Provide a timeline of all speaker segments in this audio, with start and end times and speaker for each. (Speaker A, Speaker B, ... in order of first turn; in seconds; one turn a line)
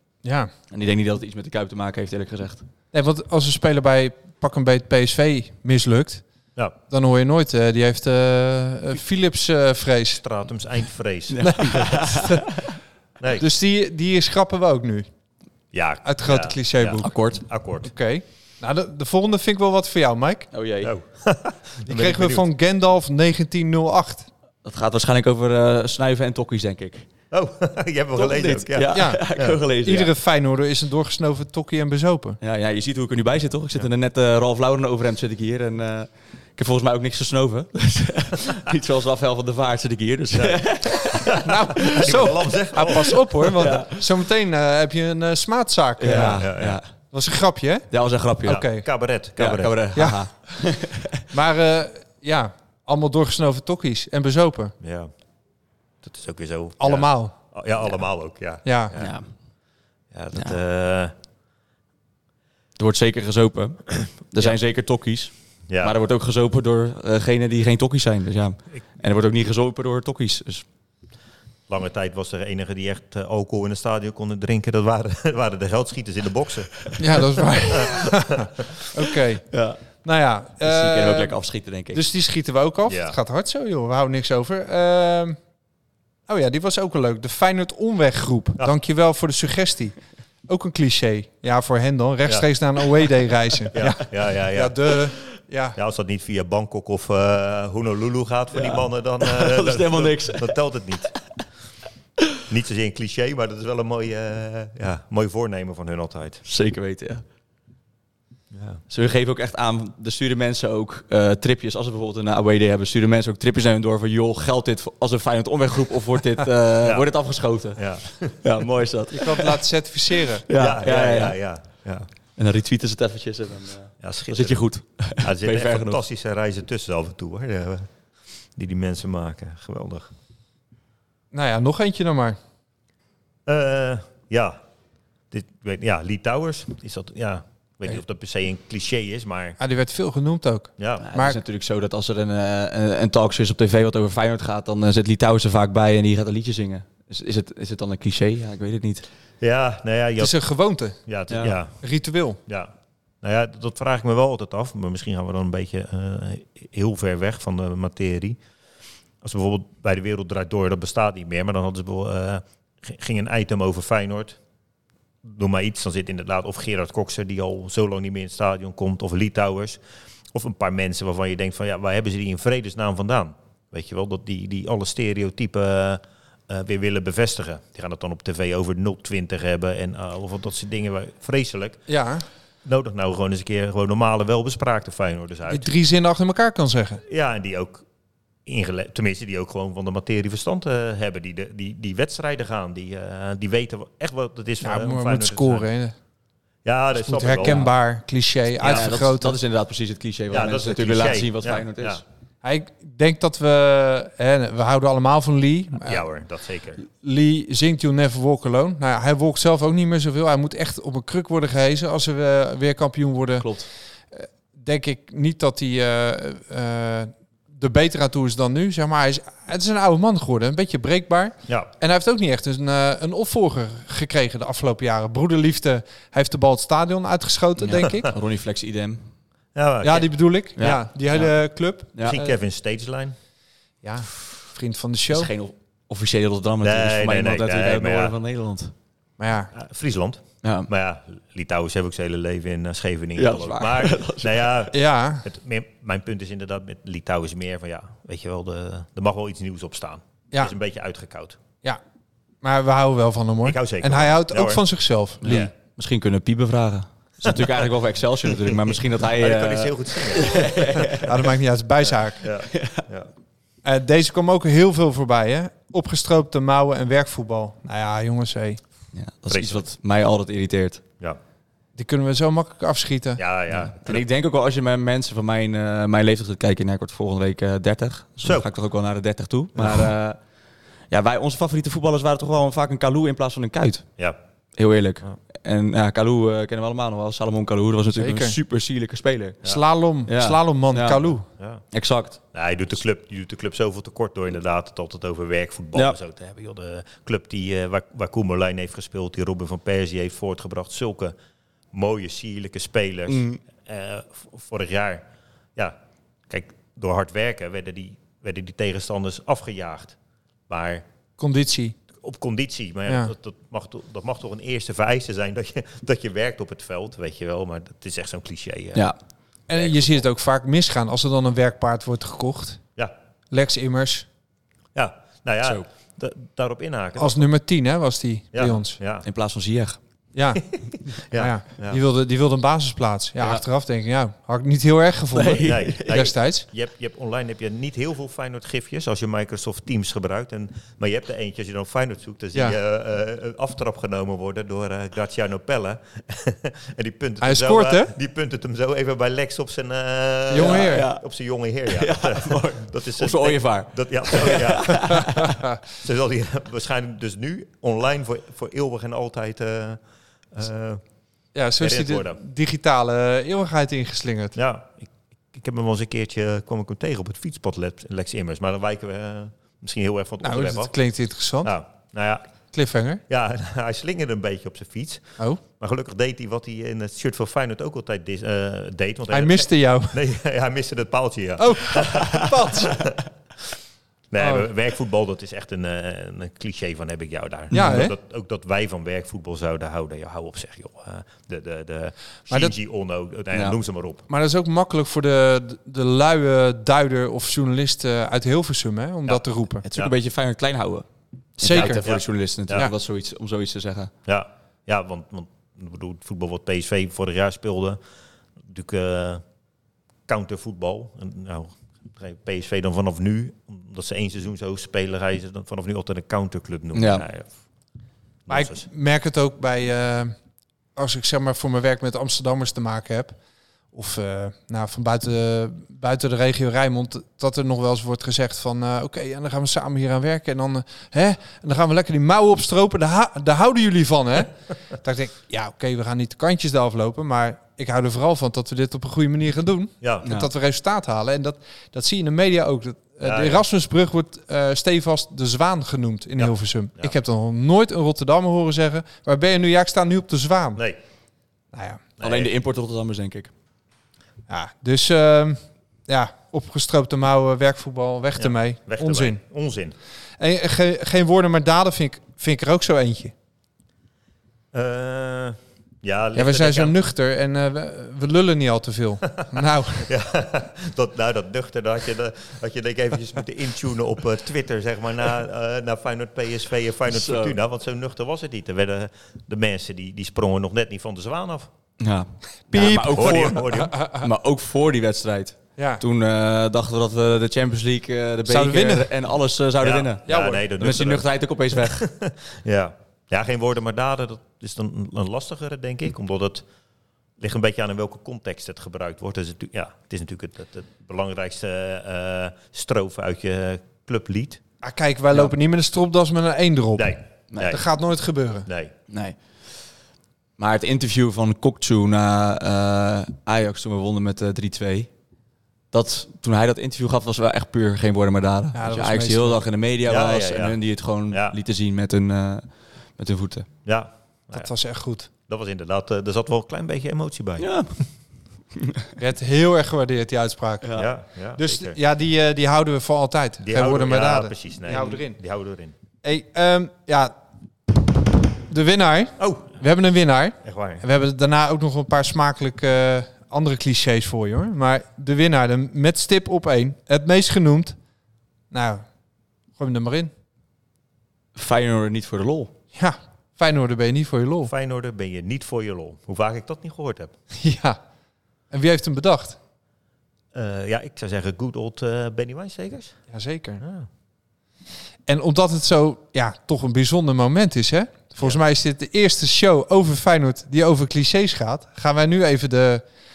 Speaker A: 0.2-0.5
Speaker B: 0.7-2.6
Speaker A: 2.9-6.2
Speaker A: 6.9-10.2
Speaker C: 10.2-12.0
Speaker B: 11.3-12.6
Speaker A: 11.4-12.4
Speaker C: 13.2-13.4
Speaker A: 13.4-15.1
Speaker C: 15.7-17.9
Speaker A: 16.0-17.1
Speaker B: 17.0-17.4
Speaker A: 17.8-20.5
Speaker B: 20.5-20.9
Speaker C: 20.8-22.4
Speaker A: 21.9-24.3
Speaker B: 24.6-27.1
Speaker C: 27.3-29.6
Speaker B: 28.1-30.1
Speaker A: 28.9-32.4
Speaker B: 32.4-41.4
Speaker C: 40.3-43.7
Speaker A: 41.4-46.4
Speaker B: 43.6-44.0
Speaker B: 46.0-46.9
Speaker C: 46.1-46.8
Speaker A: 47.1-47.9
Speaker B: 47.9-48.6
Speaker A: 48.4-48.8
Speaker C: 48.4-49.8
Speaker B: 49.4-51.2
Speaker A: 51.3-54.7
Speaker C: 54.8-55.1
Speaker C: 56.0-59.1
Speaker A: 56.8-57.3
Speaker A: 58.6-59.0
Speaker B: 59.0-59.3
Speaker C: 60.1-61.1
Speaker B: 62.8-70.6
Speaker C: 65.7-65.9
Speaker C: 71.7-77.0
Speaker A: 77.0-79.4
Speaker C: 77.7-78.6
Speaker B: 79.5-79.8
Speaker A: 80.0-81.3
Speaker B: 80.6-82.0
Speaker A: 81.9-85.4
Speaker C: 82.9-83.2
Speaker A: 86.3-90.0
Speaker A: 90.5-95.8
Speaker C: 93.7-95.0
Speaker C: 95.8-101.1
Speaker B: 98.5-101.2
Speaker C: 102.5-106.4
Speaker B: 106.4-107.2
Speaker C: 108.5-108.8
Speaker B: 108.9-119.6
Speaker C: 116.8-117.1
Speaker C: 117.7-118.3
Speaker A: 119.1-120.4
Speaker B: 120.5-121.4
Speaker C: 120.5-122.1
Speaker B: 122.4-126.0
Speaker C: 124.0-124.6
Speaker C: 125.2-127.9
Speaker C: 128.6-130.1
Speaker A: 131.3-132.4
Speaker C: 133.4-134.6
Speaker C: 135.3-139.6
Speaker A: 139.6-141.4
Speaker C: 140.8-141.1
Speaker B: 141.0-149.1
Speaker C: 149.4-150.4
Speaker A: 150.2-151.0
Speaker C: 151.1-151.8
Speaker B: 151.3-151.5
Speaker A: 151.8-152.4
Speaker C: 152.5-158.4
Speaker C: 159.2-164.4
Speaker C: 165.2-169.8
Speaker C: 170.3-181.8
Speaker A: 181.9-182.2
Speaker C: 182.6-185.7
Speaker A: 185.5-187.0
Speaker C: 187.1-187.8
Speaker C: 188.4-195.7
Speaker A: 194.6-195.9
Speaker C: 196.6-197.6
Speaker A: 197.0-199.4
Speaker B: 198.6-202.0
Speaker C: 200.3-202.0
Speaker A: 202.4-206.0
Speaker C: 205.8-206.8
Speaker A: 206.8-213.5
Speaker B: 213.4-213.7
Speaker A: 214.1-228.1
Speaker C: 227.8-228.1
Speaker B: 228.1-229.0
Speaker C: 229.5-230.1
Speaker A: 229.8-232.3
Speaker B: 230.6-231.3
Speaker C: 232.0-233.1
Speaker A: 233.8-235.3
Speaker B: 235.1-238.7
Speaker C: 236.6-238.1
Speaker A: 239.2-239.5
Speaker C: 239.5-251.4
Speaker B: 240.4-240.7
Speaker B: 243.2-244.5
Speaker A: 244.7-245.2
Speaker A: 252.4-255.5
Speaker C: 253.4-254.6
Speaker C: 255.2-255.5
Speaker B: 255.2-261.1
Speaker C: 257.2-257.6
Speaker C: 258.3-261.1
Speaker A: 261.0-262.2
Speaker C: 261.9-263.1
Speaker B: 262.5-262.8
Speaker A: 263.6-268.6
Speaker B: 268.9-270.8
Speaker C: 269.3-269.6
Speaker A: 271.8-273.2
Speaker C: 273.2-274.0
Speaker B: 273.5-280.2
Speaker C: 278.2-278.5
Speaker C: 279.6-279.9
Speaker B: 280.9-283.9
Speaker B: 284.6-289.4
Speaker A: 288.0-288.4
Speaker A: 289.4-291.2
Speaker B: 290.1-291.0
Speaker C: 291.4-291.6
Speaker B: 291.7-292.2
Speaker C: 292.3-301.1
Speaker C: 301.7-305.8
Speaker B: 303.1-303.4
Speaker C: 306.3-309.9
Speaker C: 310.5-310.8
Speaker A: 311.2-311.8
Speaker C: 312.0-318.9
Speaker A: 312.9-313.1
Speaker A: 319.5-322.6
Speaker C: 319.5-320.1
Speaker A: 323.3-324.1
Speaker C: 324.7-327.2
Speaker A: 327.0-328.8
Speaker C: 328.3-329.0
Speaker B: 329.0-329.8
Speaker A: 330.1-330.4
Speaker C: 330.9-331.8
Speaker A: 331.1-336.4
Speaker B: 335.1-336.0
Speaker C: 335.4-359.8
Speaker A: 347.2-347.9
Speaker A: 350.3-350.9
Speaker B: 350.4-351.0
Speaker B: 351.7-355.3
Speaker C: 360.3-360.8
Speaker A: 361.3-364.3
Speaker C: 361.6-362.2
Speaker C: 364.3-370.7
Speaker A: 370.2-371.5
Speaker C: 371.4-372.2
Speaker A: 372.5-373.0
Speaker C: 373.1-383.0
Speaker A: 379.1-380.0
Speaker A: 381.4-382.9
Speaker C: 384.1-394.0
Speaker A: 384.2-384.5
Speaker B: 387.5-387.8
Speaker A: 387.5-387.9
Speaker A: 392.3-392.5
Speaker A: 394.1-399.6
Speaker B: 399.6-400.9
Speaker B: 401.4-403.9
Speaker A: 401.4-401.8
Speaker C: 401.5-402.7
Speaker C: 404.1-407.8
Speaker C: 408.4-409.2
Speaker C: 410.1-417.3
Speaker B: 416.7-417.0
Speaker C: 418.2-418.6
Speaker A: 418.3-420.1
Speaker A: 420.8-423.1
Speaker A: 423.7-450.6
Speaker C: 439.8-440.1
Speaker C: 443.0-443.4
Speaker C: 446.2-446.9
Speaker A: 451.5-451.8
Speaker C: 452.0-452.3
Speaker B: 452.0-453.3
Speaker A: 454.3-459.2
Speaker C: 458.2-459.7
Speaker A: 460.2-463.1
Speaker C: 464.5-466.7
Speaker A: 466.1-469.9
Speaker C: 469.8-481.5
Speaker B: 476.9-477.4
Speaker B: 481.8-491.8
Speaker A: 482.5-484.1
Speaker C: 482.6-483.8
Speaker A: 485.6-485.8
Speaker A: 488.2-488.9
Speaker C: 489.6-496.4
Speaker A: 490.1-490.4
Speaker C: 497.2-504.4
Speaker A: 504.6-508.5
Speaker C: 506.8-507.6
Speaker C: 508.4-508.7
Speaker B: 508.9-509.2
Speaker B: 510.4-514.9
Speaker B: 515.7-523.5
Speaker A: 518.5-519.4
Speaker C: 519.9-520.6
Speaker C: 521.1-521.3
Speaker C: 523.6-524.5
Speaker A: 524.3-525.1
Speaker C: 525.3-527.5
Speaker B: 527.4-527.7
Speaker A: 529.0-530.7
Speaker B: 530.6-530.9
Speaker C: 530.8-531.8
Speaker A: 531.4-535.2
Speaker C: 533.4-535.7
Speaker A: 536.0-537.1
Speaker A: 538.5-547.8
Speaker C: 539.2-539.5
Speaker C: 540.4-540.8
Speaker A: 548.5-548.8
Speaker A: 549.6-550.1
Speaker B: 551.4-552.5
Speaker A: 552.7-554.5
Speaker C: 554.4-557.1
Speaker A: 557.4-557.8
Speaker A: 558.5-559.4
Speaker C: 560.3-563.0
Speaker A: 563.1-563.6
Speaker C: 563.6-563.9
Speaker A: 565.0-572.8